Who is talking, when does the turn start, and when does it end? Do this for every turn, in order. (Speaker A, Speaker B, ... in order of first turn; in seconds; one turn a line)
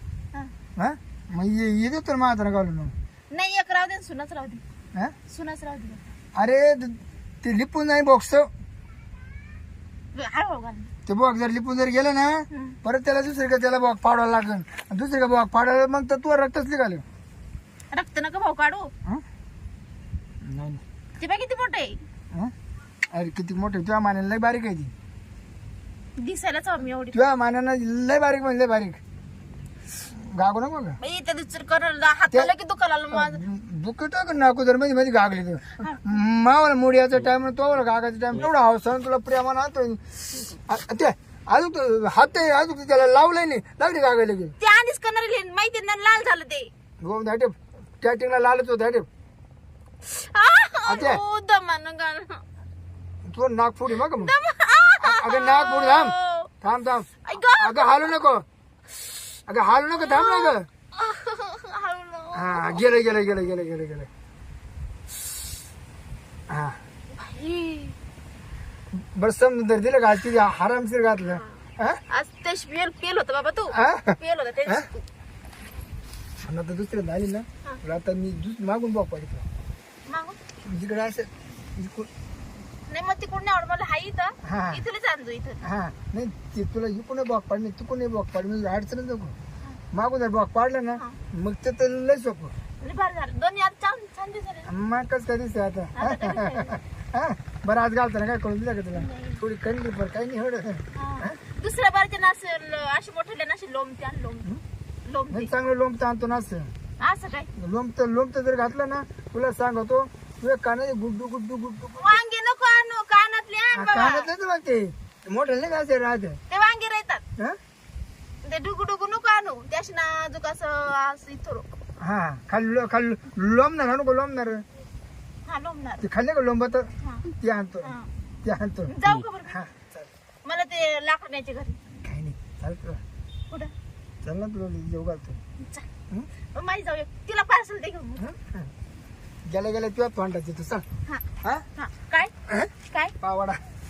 Speaker A: 0.8-2.9
Speaker B: 3.3-4.6
Speaker B: 5.3-6.0
Speaker A: 6.3-8.5
Speaker B: 10.1-10.9
Speaker A: 11.1-17.0
Speaker B: 12.5-12.8
Speaker B: 17.9-18.9
Speaker A: 20.4-20.8
Speaker B: 21.2-22.0
Speaker A: 23.1-24.9
Speaker B: 26.2-27.2
Speaker A: 27.1-29.0
Speaker A: 30.0-31.0
Speaker B: 31.0-33.4
Speaker A: 33.1-44.5
Speaker B: 44.6-46.7
Speaker A: 47.0-49.1
Speaker B: 50.0-52.4
Speaker A: 50.9-51.2
Speaker A: 53.2-54.3
Speaker B: 53.9-56.5
Speaker A: 55.0-58.4
Speaker B: 57.2-58.1
Speaker A: 59.5-60.6
Speaker B: 60.0-62.8
Speaker A: 62.3-64.1
Speaker A: 66.5-66.8
Speaker B: 67.2-68.0
Speaker A: 68.9-72.0
Speaker B: 72.1-75.0
Speaker A: 73.7-74.9
Speaker A: 76.4-79.5
Speaker B: 80.1-80.4
Speaker A: 80.6-82.1
Speaker B: 82.9-85.6
Speaker A: 84.4-84.8
Speaker A: 85.6-89.3
Speaker A: 89.9-92.5
Speaker B: 92.8-94.7
Speaker A: 94.7-101.4
Speaker B: 96.0-96.8
Speaker B: 98.9-99.4
Speaker B: 100.9-104.5
Speaker B: 105.0-105.5
Speaker A: 105.3-106.7
Speaker B: 107.0-107.5
Speaker A: 107.5-112.2
Speaker B: 112.0-114.3
Speaker A: 113.7-116.4
Speaker B: 116.5-117.2
Speaker B: 118.4-121.7
Speaker A: 122.0-124.6
Speaker B: 125.5-126.0
Speaker A: 126.0-128.9
Speaker B: 127.0-127.2
Speaker B: 127.8-128.1
Speaker B: 128.9-129.6
Speaker A: 129.5-130.1
Speaker B: 130.4-131.8
Speaker A: 132.0-133.0
Speaker A: 134.2-135.4
Speaker B: 135.6-135.9
Speaker B: 136.5-138.3
Speaker A: 138.2-138.7
Speaker A: 139.5-140.8
Speaker B: 141.1-142.3
Speaker A: 142.5-143.6